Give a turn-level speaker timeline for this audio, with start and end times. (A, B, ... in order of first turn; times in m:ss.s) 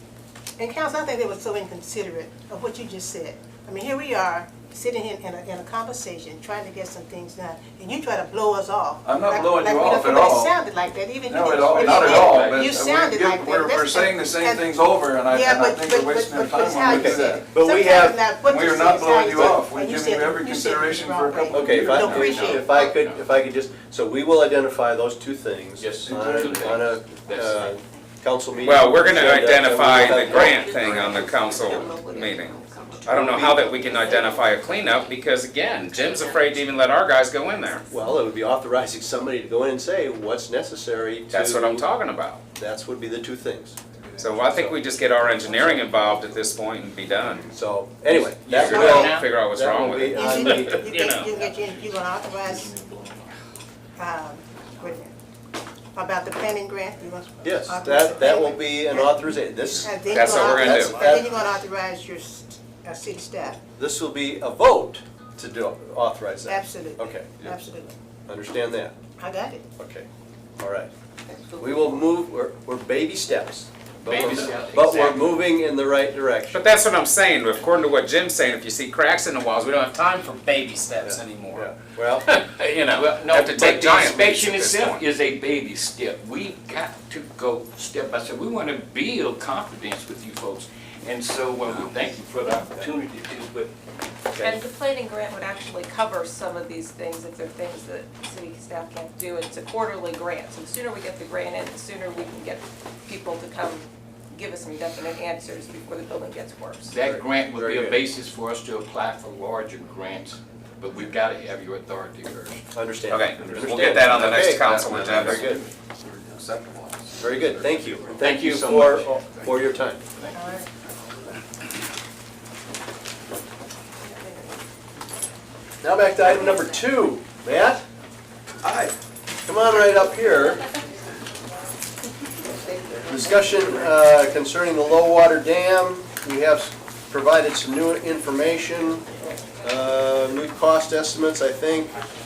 0:00.6-0:14.7 A
0:09.0-0:10.5 B
0:11.3-0:17.6 B
0:11.7-0:12.7 C
0:15.3-0:22.7 A
0:16.8-0:18.2 D
0:18.4-0:22.4 B
0:21.5-0:31.2 D
0:22.0-0:23.2 C
0:25.8-0:27.8 C
0:26.1-0:26.8 B
0:28.6-0:37.8 E
0:30.0-0:35.1 F
0:33.0-0:33.9 D
0:35.9-0:36.6 F
0:37.9-0:41.8 D
0:41.3-0:42.4 E
0:42.5-0:43.8 D
0:44.2-0:47.5 E
0:44.4-0:44.8 B
0:47.4-0:50.9 D
0:48.4-0:51.3 E
0:48.5-0:49.3 C
0:50.1-0:52.7 A
0:52.5-0:53.2 B
0:54.0-0:55.1 A
0:55.9-1:03.6 A
0:57.4-1:01.4 D
1:00.1-1:01.0 E
1:03.8-1:07.4 D
1:06.4-1:07.9 A
1:08.3-1:08.9 D
1:09.2-1:09.6 A
1:09.8-1:10.1 D
1:10.6-1:10.9 D
1:11.2-1:12.0 F
1:11.6-1:16.6 D
1:14.0-1:15.3 C
1:16.5-1:21.7 E
1:21.0-1:22.3 D
1:22.2-1:25.0 E
1:22.9-1:33.7 C
1:34.3-1:34.6 D
1:34.4-1:46.9 G
1:46.8-1:52.6 C
1:47.0-1:48.0 D
1:52.7-1:55.6 D
1:53.1-1:55.6 E
1:53.5-1:58.1 A
1:57.2-2:00.0 D
1:58.2-1:59.1 C
2:00.3-2:00.7 A
2:04.0-2:04.6 G
2:05.8-2:07.8 D
2:06.2-2:06.6 G
2:09.4-2:10.6 D
2:13.1-2:19.0 D
2:19.6-2:21.9 D